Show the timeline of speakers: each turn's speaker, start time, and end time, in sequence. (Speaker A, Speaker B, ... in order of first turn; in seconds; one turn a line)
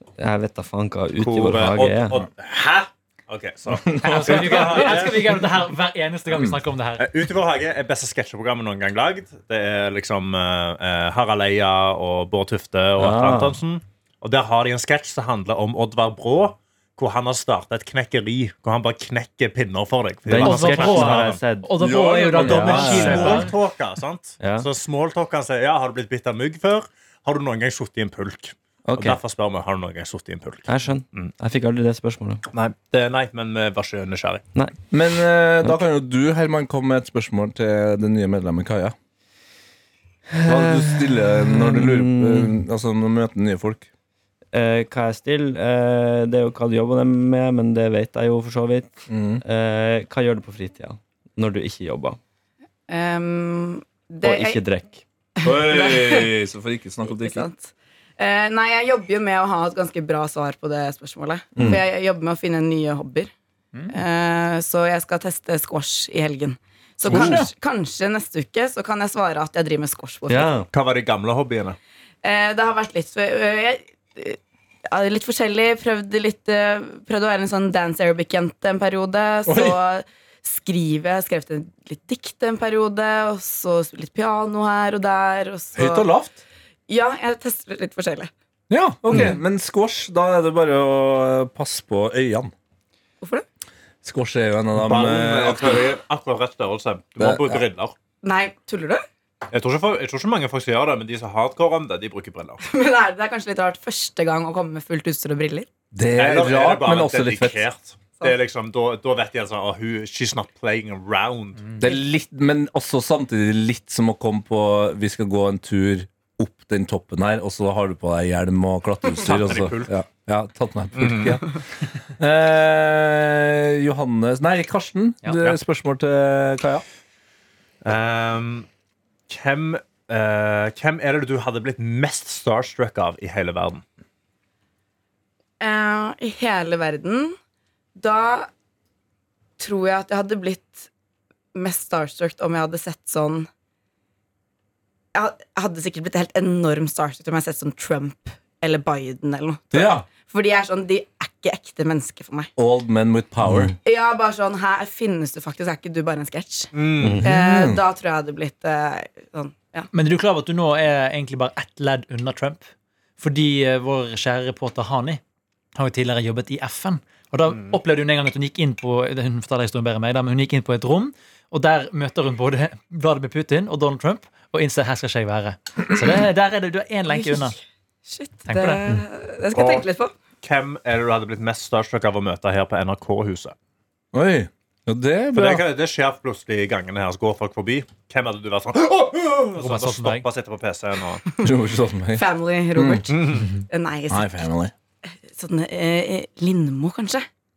Speaker A: 0.2-2.2
Speaker B: 1.2-5.4
Speaker C: 3.9-7.1
Speaker D: 4.0-4.4
Speaker D: 6.3-6.6
Speaker B: 7.0-21.4
Speaker A: 13.0-13.5
Speaker A: 20.3-21.8
Speaker C: 20.4-23.5
Speaker D: 21.8-23.5
Speaker B: 22.2-31.3
Speaker A: 22.6-23.2
Speaker A: 24.4-24.7
Speaker D: 28.9-29.1
Speaker A: 30.7-32.4
Speaker B: 32.5-34.4
Speaker D: 34.9-38.9
Speaker A: 40.3-42.6
Speaker D: 40.4-43.9
Speaker A: 44.5-52.2
Speaker D: 49.1-49.4
Speaker E: 52.9-54.6
Speaker A: 54.2-55.0
Speaker E: 55.4-56.3
Speaker D: 55.4-57.5
Speaker E: 57.0-63.3
Speaker E: 63.9-70.5
Speaker D: 67.0-67.5
Speaker A: 70.3-70.7
Speaker B: 70.7-71.8
Speaker E: 72.2-86.1
Speaker D: 79.5-79.8
Speaker D: 85.7-86.4
Speaker E: 86.9-88.3
Speaker D: 88.7-92.5
Speaker D: 94.0-96.0
Speaker B: 94.8-97.9
Speaker D: 97.2-97.6
Speaker E: 98.2-99.0
Speaker B: 99.5-102.6
Speaker E: 102.6-105.7
Speaker D: 105.9-107.7
Speaker B: 106.1-111.7
Speaker D: 111.8-121.5
Speaker B: 119.2-119.9
Speaker B: 120.9-121.4
Speaker D: 122.2-126.8
Speaker B: 127.8-128.7
Speaker B: 129.3-133.8
Speaker E: 135.6-137.3
Speaker E: 137.9-138.5
Speaker E: 139.6-140.9
Speaker E: 141.5-143.5
Speaker E: 145.1-152.5
Speaker D: 149.7-150.1
Speaker D: 152.6-153.7
Speaker A: 153.4-153.7
Speaker E: 153.8-156.7
Speaker B: 156.7-157.2
Speaker A: 157.0-157.3
Speaker D: 157.2-157.8
Speaker E: 157.2-159.9
Speaker C: 159.9-162.6
Speaker C: 163.2-165.2
Speaker C: 165.7-177.6
Speaker E: 177.1-180.1
Speaker C: 178.4-178.8
Speaker B: 179.5-179.8
Speaker B: 180.4-183.5
Speaker D: 184.1-185.7
Speaker B: 185.3-191.2
Speaker C: 189.6-190.2
Speaker D: 191.4-193.1
Speaker E: 192.2-194.4
Speaker B: 193.1-193.5
Speaker D: 194.1-194.7
Speaker E: 195.3-197.2